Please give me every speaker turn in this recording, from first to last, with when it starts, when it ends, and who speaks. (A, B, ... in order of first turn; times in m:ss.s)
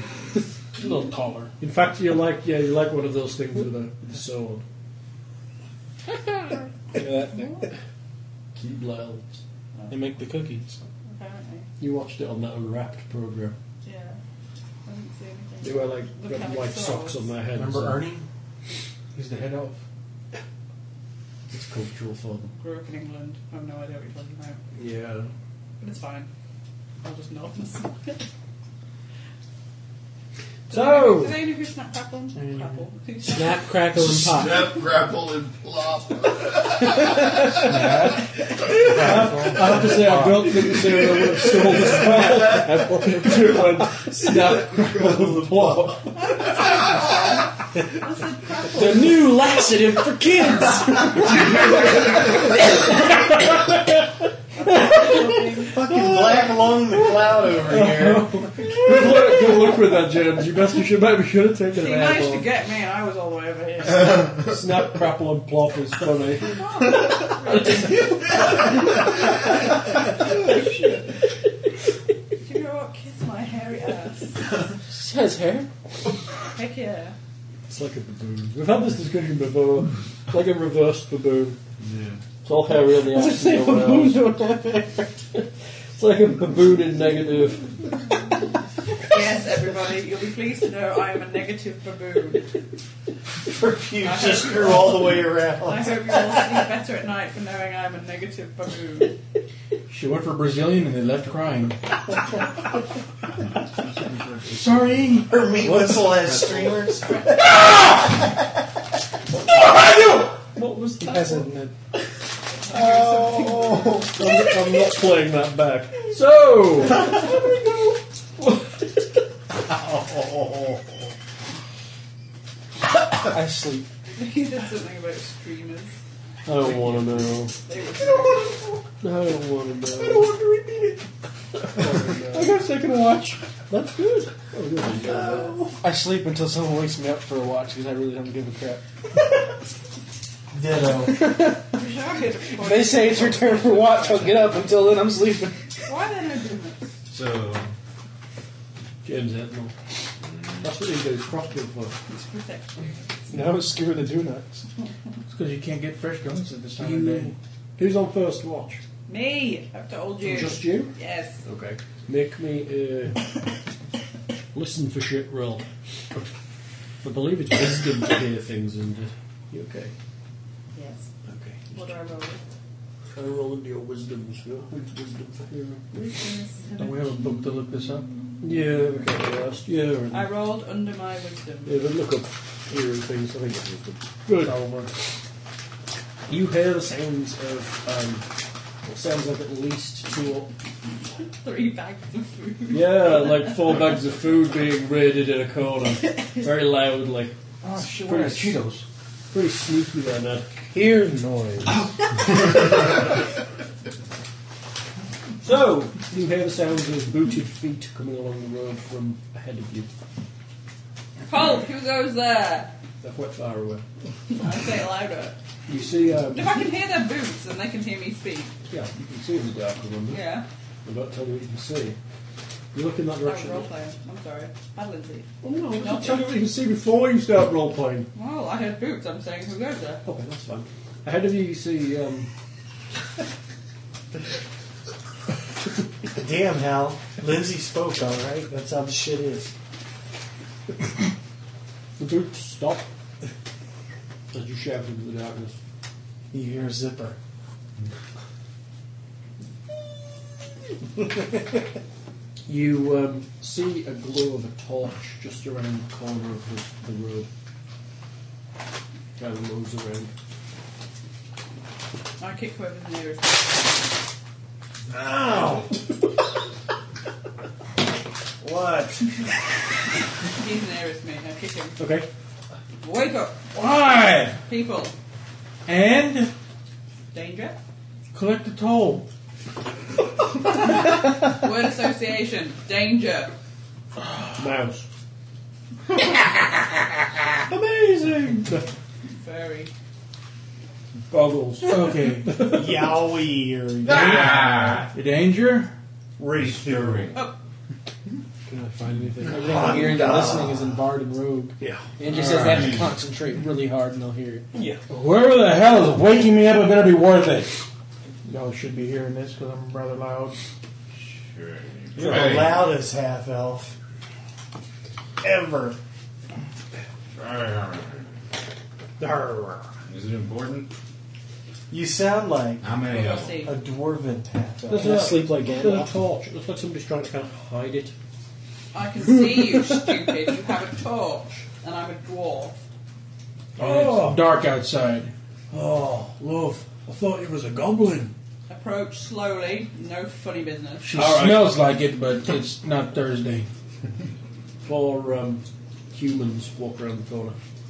0:00.8-0:01.5 A
0:01.6-0:04.6 B
0:06.9-0:07.7 C
0:08.6-0:09.4 B
0:09.9-0:10.7 C
0:11.0-0:11.7 D
0:11.8-0:13.6 B
0:13.8-0:14.2 D
0:14.8-0:17.3 D
0:15.6-0:18.1 B
0:17.5-0:18.3 A
0:19.1-0:19.8 A
0:21.5-0:22.5 B
0:22.6-0:24.6 D
0:24.8-0:25.3 B
0:25.8-0:26.3 D
0:27.0-0:28.2 D
0:30.7-0:33.7 D
0:30.7-0:31.4 B
0:32.3-0:32.8 A
0:33.2-0:34.8 C
0:33.9-0:37.6 E
0:37.5-0:40.7 A
0:38.6-0:46.2 B
0:40.8-0:43.5 E
0:42.1-0:42.3 C
0:44.1-0:45.9 E
0:46.2-0:49.4 D
0:48.7-0:51.5 C
0:54.5-0:55.8 D
0:54.6-0:55.5 B
0:55.7-0:58.5 F
0:57.6-1:02.5 B
1:01.7-1:04.4 D
1:04.4-1:08.6 B
1:06.4-1:11.1 D
1:12.4-1:14.6 D
1:14.9-1:15.7 C
1:16.5-1:17.1 D
1:17.7-1:21.6 B
1:21.8-1:22.2 E
1:22.4-1:24.2 B
1:23.0-1:25.1 C
1:25.3-1:27.8 B
1:29.0-1:32.4 D
1:33.4-1:36.6 F
1:34.0-1:39.2 D
1:39.9-1:42.0 A
1:43.8-1:45.0 E
1:44.5-1:45.3 A
1:44.9-1:47.8 F
1:45.6-1:46.8 B
1:50.6-1:51.1 B
1:51.0-1:51.7 C
1:51.0-1:51.4 D
1:52.5-1:54.1 D
1:52.7-1:54.0 F
1:54.0-1:57.6 B
1:58.4-1:58.6 B
1:59.7-2:00.8 G
2:03.2-2:03.9 C
2:04.2-2:05.9 D
2:06.4-2:07.5 B
2:07.5-2:08.6 D
2:09.0-2:10.3 B
2:11.6-2:12.6 B
2:12.3-2:13.8 C
2:13.7-2:15.6 B
2:15.7-2:18.8 C
2:20.5-2:21.2 F
2:20.9-2:21.8 C
2:21.7-2:24.5 D
2:22.5-2:25.8 C
2:25.8-2:26.9 D
2:27.1-2:27.7 G
2:29.0-2:29.7 B
2:30.3-2:30.6 G
2:30.6-2:32.0 B
2:32.1-2:33.0 D
2:33.3-2:34.6 B
2:35.3-2:37.3 A
2:36.8-2:38.8 B
2:39.1-2:41.4 D
2:40.2-2:43.3 B
2:44.5-2:46.2 B
2:47.0-2:49.9 B
2:50.7-2:51.1 D
2:51.2-2:51.8 B
2:51.7-2:52.4 D
2:53.1-2:56.2 B
2:55.9-2:57.1 D
2:56.7-2:58.1 A
2:58.4-3:00.3 B
3:00.1-3:01.8 D
3:01.6-3:04.9 B
3:04.4-3:04.9 A
3:06.3-3:08.3 B
3:08.8-3:10.5 B
3:11.2-3:13.8 D
3:12.7-3:18.6 B
3:17.6-3:18.8 A
3:19.3-3:21.9 B
3:25.4-3:29.9 B
3:31.2-3:32.7 D
3:33.0-3:33.8 B
3:34.3-3:35.4 D
3:35.7-3:36.6 B
3:36.3-3:38.5 D
3:38.7-3:40.2 B
3:40.1-3:40.4 D
3:40.8-3:42.0 B
3:42.7-3:43.7 B
3:43.2-3:46.4 D
3:45.4-3:48.1 B
3:48.1-3:50.0 D
3:50.0-3:52.3 B
3:56.1-3:59.5 F
4:02.0-4:02.9 B
4:04.3-4:05.6 B
4:06.3-4:07.2 F
4:12.4-4:17.3 B
4:19.2-4:20.1 B
4:22.2-4:23.8 D
4:24.9-4:25.7 F
4:28.4-4:29.0 F
4:30.3-4:31.8 D
4:31.8-4:32.1 B
4:32.8-4:33.5 D
4:33.5-4:34.4 A
4:34.4-4:34.9 D
4:35.6-4:36.3 A
4:37.1-4:37.6 D
4:38.1-4:39.1 A
4:40.5-4:43.3 D
4:44.4-4:44.9 B
4:47.5-4:48.7 B
4:49.1-4:49.7 D
4:51.1-4:52.7 B
4:51.6-4:52.6 A
4:52.5-4:54.8 F
4:53.8-4:54.9 G
4:53.9-4:54.4 A
4:54.9-4:55.7 A
4:56.2-4:57.2 F
4:56.3-4:57.2 G
4:58.4-5:04.5 C
4:59.3-5:00.7 F
5:01.6-5:01.9 B
5:02.1-5:02.8 A
5:02.3-5:02.9 G
5:04.5-5:04.8 B
5:04.9-5:07.6 A
5:08.2-5:10.4 A
5:11.0-5:12.8 G
5:12.0-5:13.7 F
5:12.0-5:12.3 B
5:15.2-5:15.8 F
5:17.1-5:18.1 G
5:19.0-5:19.7 B
5:19.8-5:20.7 G
5:21.7-5:22.7 F
5:22.6-5:23.4 G
5:22.8-5:23.5 D
5:23.4-5:25.1 F
5:24.7-5:27.9 B
5:24.7-5:25.9 C
5:28.7-5:32.6 D
5:33.6-5:34.3 B
5:33.6-5:35.1 A
5:35.5-5:38.1 B
5:38.5-5:40.9 D
5:40.8-5:43.5 A
5:40.9-5:41.6 B
5:44.6-5:47.4 B